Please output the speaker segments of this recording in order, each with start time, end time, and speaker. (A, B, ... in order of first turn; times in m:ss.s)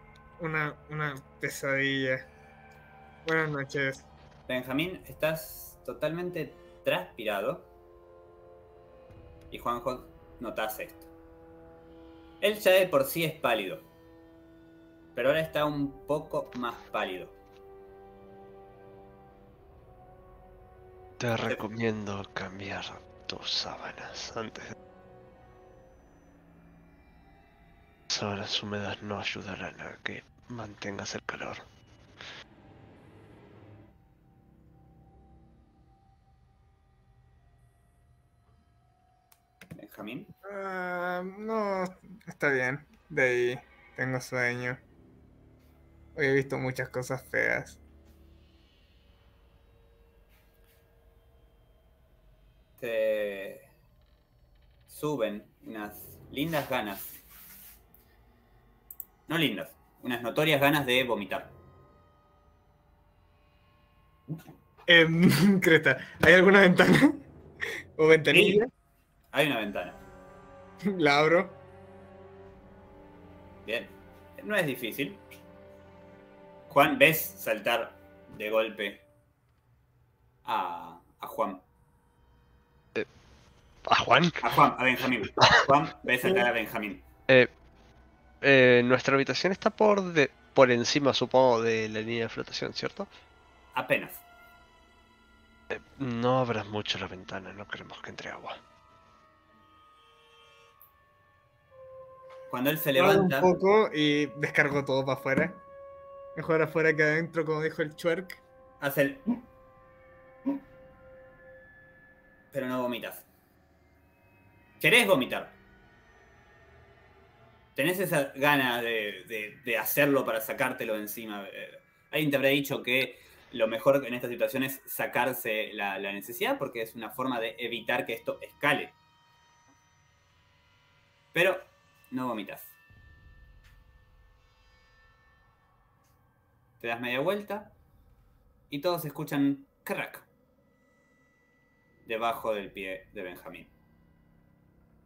0:00.4-0:02.3 A
0:03.2-0:04.1 A
0:04.5-0:07.7 B
0:09.5-0:11.1 B
0:12.4-0:13.9 B
0:15.2-0:17.4 B
0:21.2-0:24.8 C
0:28.1-0:31.6 C
0:39.8-0:40.3 B
0:40.4-0:44.8 A
0:46.2-0:47.8 A
0:52.8-0:53.7 B
0:54.9-0:57.2 B
0:59.3-1:01.5 B
1:04.9-1:07.2 A
1:08.0-1:08.7 A
1:08.3-1:08.6 B
1:09.3-1:10.0 B
1:10.8-1:11.6 A
1:13.6-1:15.2 B
1:16.7-1:19.0 B
1:20.4-1:21.6 B
1:23.8-1:24.5 C
1:24.4-1:27.0 B
1:25.3-1:25.5 C
1:28.4-1:33.1 C
1:33.8-1:34.2 B
1:35.7-1:38.6 C
1:42.5-1:43.5 B
1:43.0-1:45.6 A
1:46.4-1:48.4 A
1:48.8-1:49.3 B
1:52.5-1:53.3 B
1:54.8-1:55.6 B
1:57.8-2:09.0 B
2:11.3-2:12.8 B
2:16.8-2:17.8 B
2:18.7-2:20.3 B
2:22.1-2:23.7 B